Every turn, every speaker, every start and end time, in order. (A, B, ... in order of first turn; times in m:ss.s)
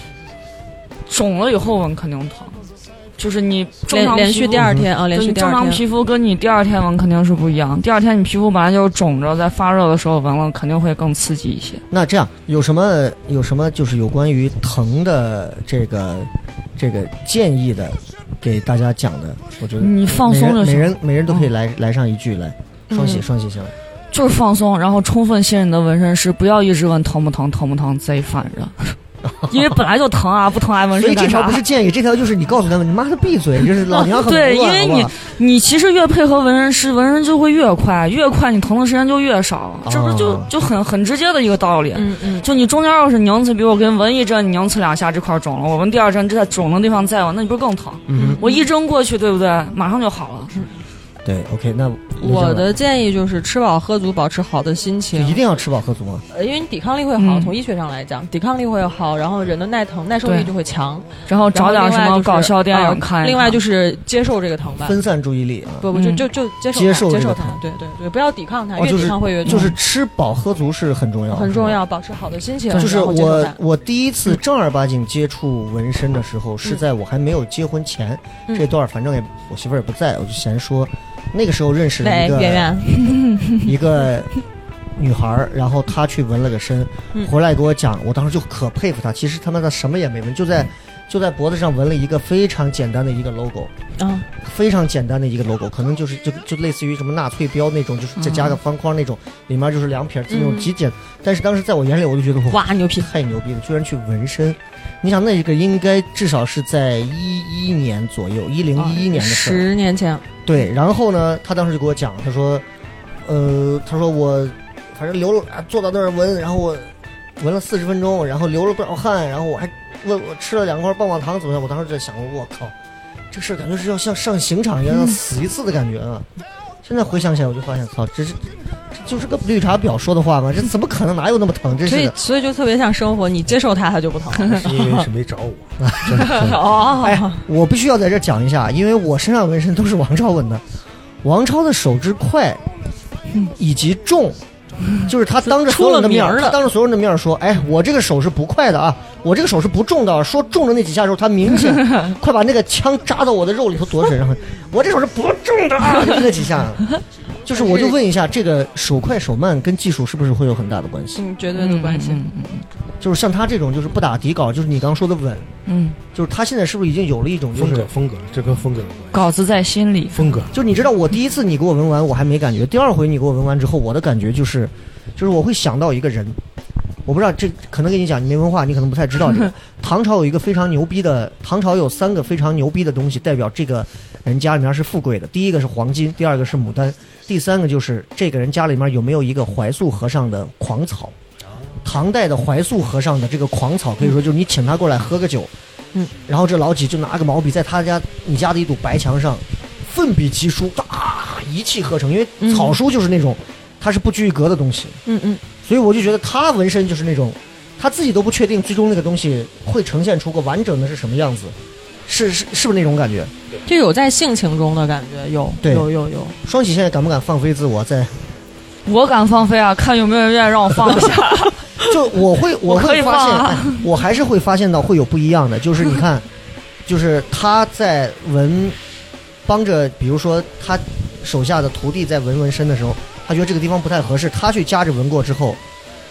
0:01.1-0:02.6 A
0:03.2-0:11.8 A
0:03.9-0:05.8 B
0:04.6-0:04.9 C
0:11.9-0:23.7 C
0:19.8-0:21.5 A
0:22.9-0:23.2 B
0:24.1-0:29.0 A
0:29.2-0:29.8 C
0:29.5-0:31.6 A
0:31.0-0:35.1 C
0:34.2-0:50.5 A
0:39.8-0:40.5 C
0:41.9-0:42.5 B
0:48.1-0:48.4 C
0:48.1-0:48.7 B
0:51.2-0:52.7 C
0:52.2-0:55.4 B
0:55.1-0:56.2 C
0:56.3-1:05.0 B
0:57.2-0:57.5 A
1:00.2-1:00.5 A
1:01.3-1:03.6 A
1:04.8-1:05.9 C
1:05.8-1:09.7 B
1:05.9-1:06.2 A
1:06.7-1:07.6 C
1:08.8-1:11.8 C
1:09.5-1:09.7 A
1:11.3-1:13.6 B
1:12.7-1:22.8 C
1:22.0-1:23.0 B
1:23.1-1:23.6 A
1:23.6-1:24.3 C
1:25.0-1:33.7 C
1:34.0-1:34.3 B
1:34.4-1:49.6 C
1:38.2-1:38.6 A
1:40.3-1:40.7 B
1:42.5-1:43.1 B
1:48.8-1:50.3 B
1:50.5-1:52.6 C
1:53.2-2:02.7 C
2:03.3-2:06.3 C
2:06.8-2:12.1 C
2:11.8-2:15.1 B
2:14.5-2:16.6 D
2:15.8-2:20.6 C
2:16.2-2:17.4 B
2:21.2-2:22.6 C
2:23.5-2:24.4 C
2:25.0-2:36.9 C
2:25.4-2:26.6 B
2:37.4-2:41.2 C
2:37.5-2:38.0 B
2:41.2-2:42.2 B
2:41.6-2:42.6 A
2:43.0-2:45.5 C
2:45.6-2:46.0 A
2:46.1-2:47.9 C
2:47.5-2:49.3 D
2:49.1-2:50.4 A
2:50.1-2:50.5 D
2:50.5-2:56.4 C
2:57.0-3:11.1 C
3:11.8-3:15.5 C
3:16.2-3:25.0 C
3:22.4-3:22.8 B
3:25.0-3:25.4 B
3:25.6-3:31.5 C
3:32.1-3:33.3 C
3:33.6-3:36.4 B
3:35.6-3:35.9 C
3:36.4-3:38.1 C
3:38.8-3:41.5 A
3:41.8-3:46.2 C
3:42.6-3:43.8 A
3:46.8-3:48.8 C
3:49.4-3:55.6 C